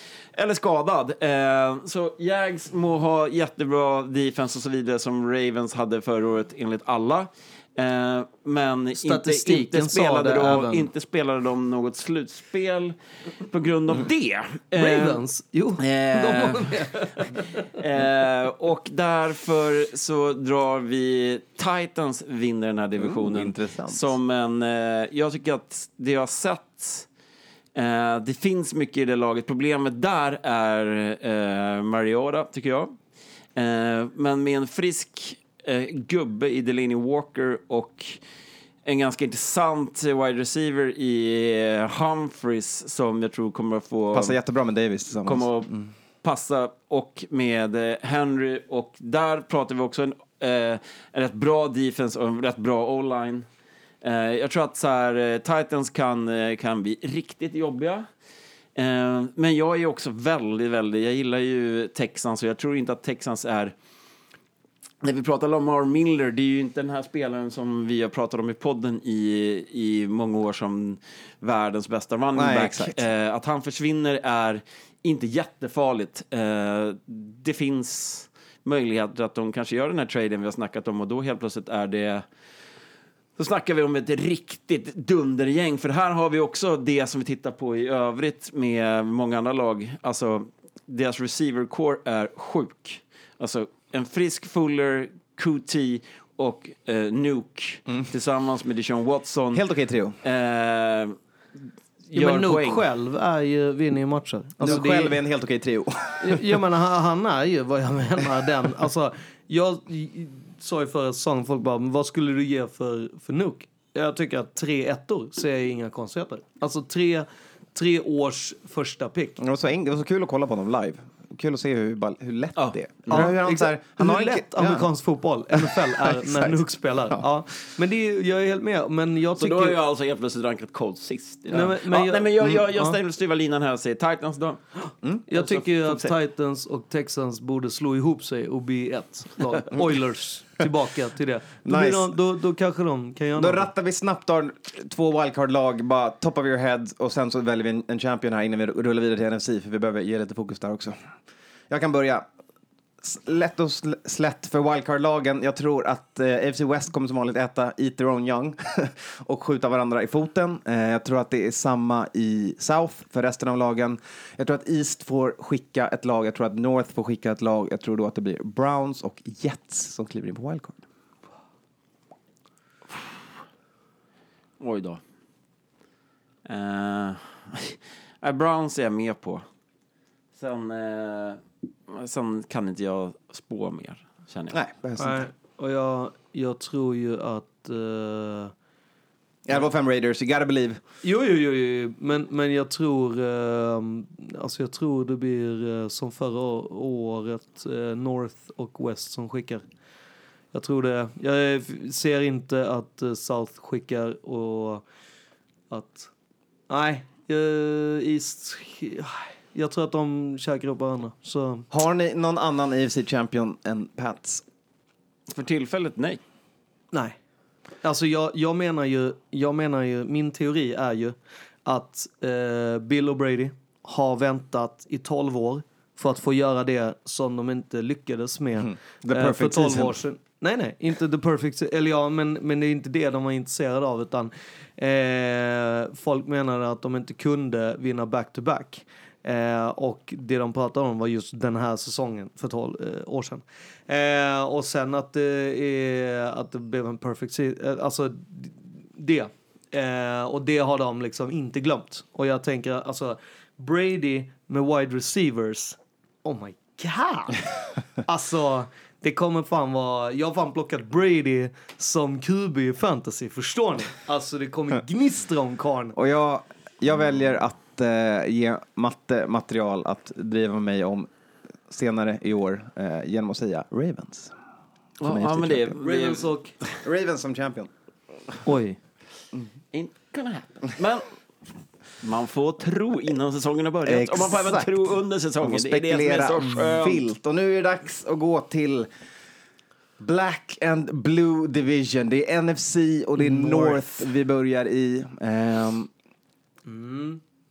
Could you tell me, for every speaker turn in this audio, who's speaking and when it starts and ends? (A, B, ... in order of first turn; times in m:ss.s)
0:00.3-0:15.2 A
0:09.0-0:10.9 B
0:14.8-0:17.6 B
0:15.8-0:16.9 A
0:17.7-0:27.1 A
0:23.0-0:24.2 C
0:27.7-0:33.0 A
0:33.6-0:38.2 A
0:38.8-0:44.4 A
0:44.1-0:45.8 C
0:45.2-0:53.4 A
0:54.0-0:58.0 A
0:58.7-1:03.7 A
1:05.0-1:22.2 A
1:12.4-1:13.0 C
1:23.4-1:39.6 A
1:39.5-1:40.2 C
1:40.2-1:41.1 A
1:42.1-1:42.8 A
1:42.1-1:45.2 B
1:44.6-1:46.4 C
1:46.2-1:59.4 B
1:59.4-2:04.9 C
2:02.6-2:03.3 A
2:03.1-2:09.8 B
2:05.6-2:06.6 C
2:09.4-2:14.6 A
2:11.5-2:13.0 B
2:15.3-2:23.7 B
2:15.3-2:16.1 A
2:21.6-2:22.1 C
2:23.4-2:30.9 C
2:31.7-2:32.2 C
2:33.0-2:50.8 C
2:54.6-2:55.0 A
2:56.4-2:59.4 A
3:00.4-3:04.6 A
3:04.5-3:05.2 C
3:05.0-3:08.5 B
3:09.4-3:10.8 C
3:11.0-3:19.6 B
3:20.5-3:24.8 B
3:25.7-3:26.1 B
3:26.7-3:31.7 B
3:31.7-3:34.4 C
3:35.3-3:36.2 A
3:36.9-3:37.2 B
3:37.8-4:17.4 B
3:48.6-3:50.0 C
4:18.0-4:25.9 B
4:25.9-4:31.1 C
4:31.7-4:34.3 C
4:35.0-4:36.6 A
4:35.0-4:35.8 C
4:35.8-4:36.6 B
4:36.8-4:37.7 C
4:38.4-4:38.8 B
4:39.7-4:41.1 A
4:42.0-4:47.0 A
4:43.8-4:44.9 C
4:45.4-4:48.9 C
4:50.0-4:55.9 C
4:53.2-4:54.0 B
4:56.7-4:57.2 B